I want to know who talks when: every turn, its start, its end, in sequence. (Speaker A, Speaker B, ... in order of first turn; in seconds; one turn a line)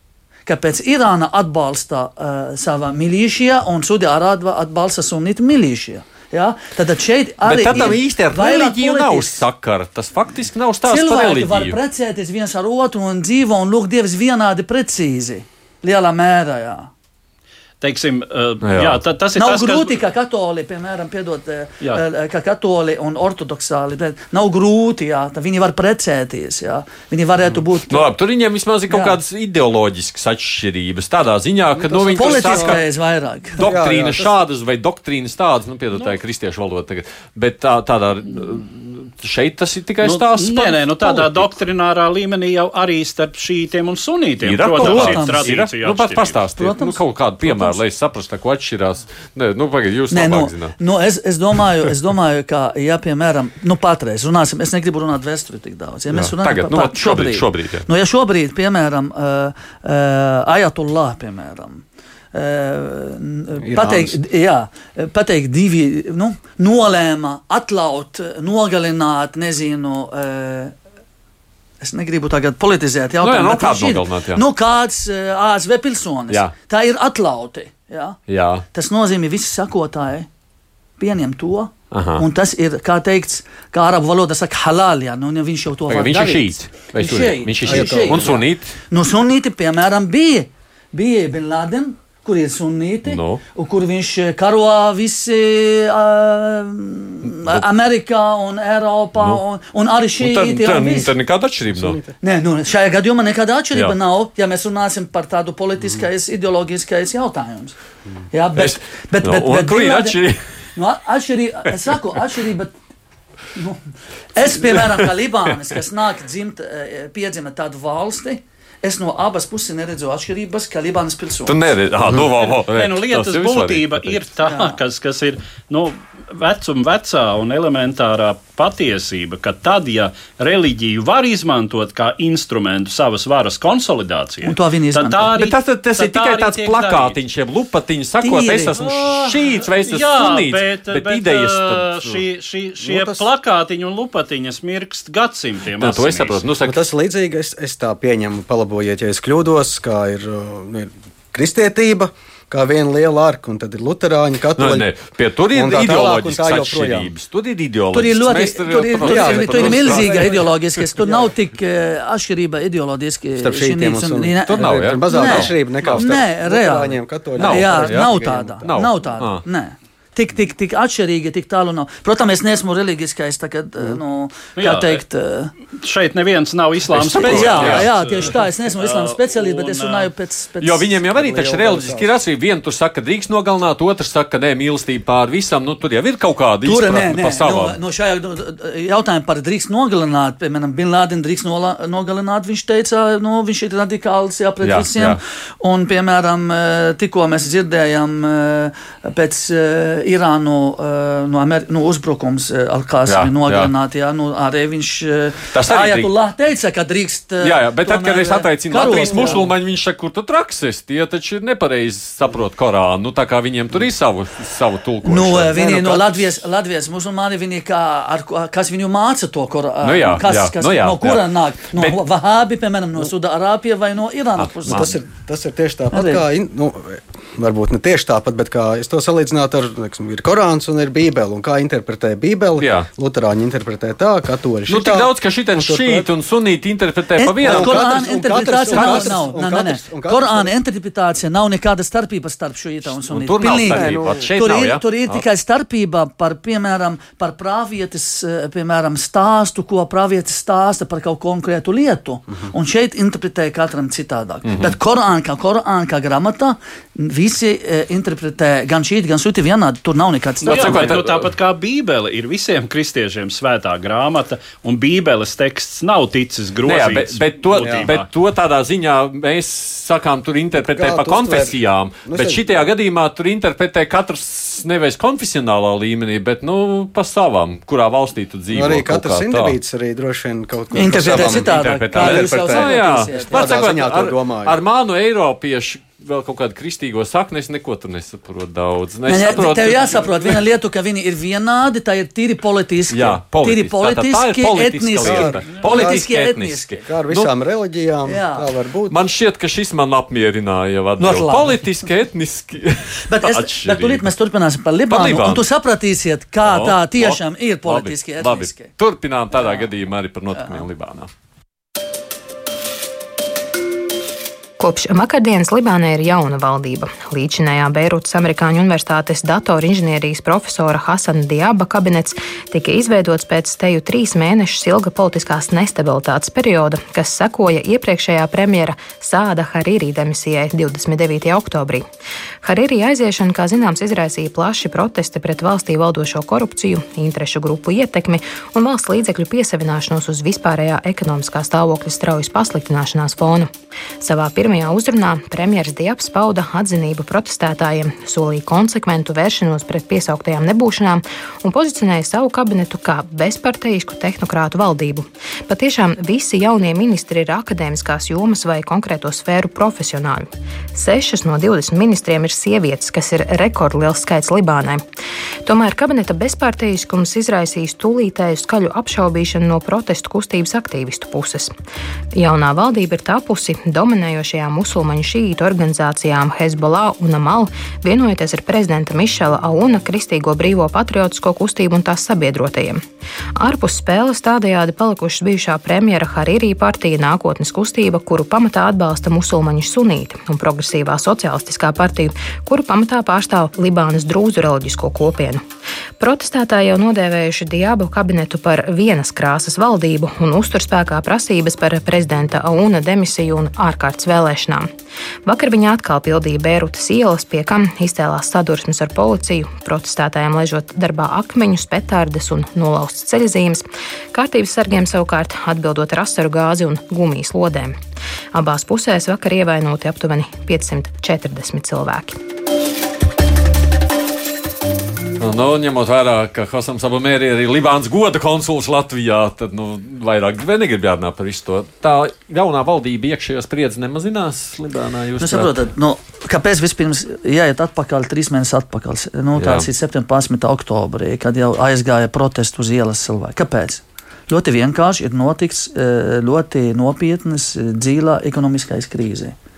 Speaker A: 0.5-9.4
Speaker B: 7.4-11.8
Speaker A: 10.8-16.9
Speaker C: 17.8-20.0
Speaker B: 18.6-19.0
Speaker A: 19.4-28.1
Speaker B: 27.9-32.8
Speaker A: 28.9-29.2
Speaker D: 31.8-32.8
Speaker A: 32.2-33.6
Speaker B: 33.6-41.5
Speaker D: 33.6-34.3
Speaker C: 40.0-46.4
Speaker B: 44.4-50.8
Speaker A: 44.8-45.5
Speaker A: 46.6-47.8
Speaker A: 50.1-70.8
Speaker B: 56.1-57.9
Speaker D: 63.6-64.2
Speaker A: 71.8-78.2
Speaker B: 73.2-74.5
Speaker B: 78.3-78.7
Speaker A: 78.7-80.3
Speaker A: 81.0-101.1
Speaker B: 81.9-82.3
Speaker B: 85.9-88.8
Speaker D: 87.6-88.4
Speaker B: 93.0-93.4
Speaker B: 97.3-97.7
Speaker B: 99.2-99.4
Speaker B: 100.2-102.0
Speaker D: 101.7-102.1
Speaker A: 102.2-107.8
Speaker A: 108.3-110.2
Speaker B: 108.6-110.6
Speaker A: 110.8-112.8
Speaker A: 113.5-121.7
Speaker B: 114.7-115.0
Speaker B: 121.5-124.2
Speaker C: 122.2-137.2
Speaker A: 124.5-124.8
Speaker A: 134.4-135.3
Speaker B: 135.3-142.2
Speaker A: 138.2-138.8
Speaker C: 138.8-146.4
Speaker D: 142.8-143.3
Speaker B: 145.8-146.8
Speaker D: 146.6-154.9
Speaker B: 154.6-160.5
Speaker D: 155.5-157.1
Speaker A: 157.9-175.5
Speaker D: 159.0-161.3
Speaker D: 163.4-168.7
Speaker B: 164.5-165.6
Speaker B: 167.4-169.4
Speaker C: 174.6-175.0
Speaker C: 175.8-180.1
Speaker B: 176.9-177.9
Speaker A: 177.2-181.0
Speaker B: 180.6-187.8
Speaker D: 181.1-182.1
Speaker A: 186.6-209.4
Speaker B: 194.6-195.2
Speaker B: 203.1-203.7
Speaker B: 205.5-206.1
Speaker B: 207.4-215.7
Speaker D: 208.9-209.3
Speaker A: 215.0-224.9
Speaker D: 215.5-216.3
Speaker B: 219.8-222.0
Speaker B: 224.4-225.0
Speaker D: 224.7-236.1
Speaker A: 225.9-226.2
Speaker B: 232.6-232.9
Speaker B: 234.7-237.9
Speaker A: 237.2-261.0
Speaker D: 237.4-240.5
Speaker B: 238.7-239.2
Speaker B: 243.0-245.2
Speaker D: 243.4-244.3
Speaker B: 254.5-254.8
Speaker B: 260.4-261.3
Speaker C: 260.5-268.1
Speaker B: 266.7-279.6
Speaker D: 267.6-267.9
Speaker D: 270.6-272.6
Speaker D: 278.5-284.6
Speaker A: 280.7-283.7
Speaker B: 280.9-290.4
Speaker A: 289.1-296.9
Speaker B: 292.9-297.3
Speaker D: 295.0-296.0
Speaker D: 296.9-299.0
Speaker A: 298.1-298.5
Speaker B: 298.9-304.1
Speaker A: 301.0-301.6
Speaker A: 303.1-308.7
Speaker B: 304.9-305.5
Speaker B: 306.4-311.1
Speaker A: 309.4-309.7
Speaker A: 310.4-310.6
Speaker E: 314.6-331.9
Speaker E: 332.4-343.5
Speaker E: 344.0-364.8
Speaker E: 365.4-371.5
Speaker E: 372.1-382.8
Speaker E: 383.4-395.4
Speaker E: 396.0-404.7
Speaker E: 405.3-417.8
Speaker E: 418.3-422.2
Speaker B: 425.2-435.6
Speaker A: 435.2-449.4
Speaker B: 439.4-439.7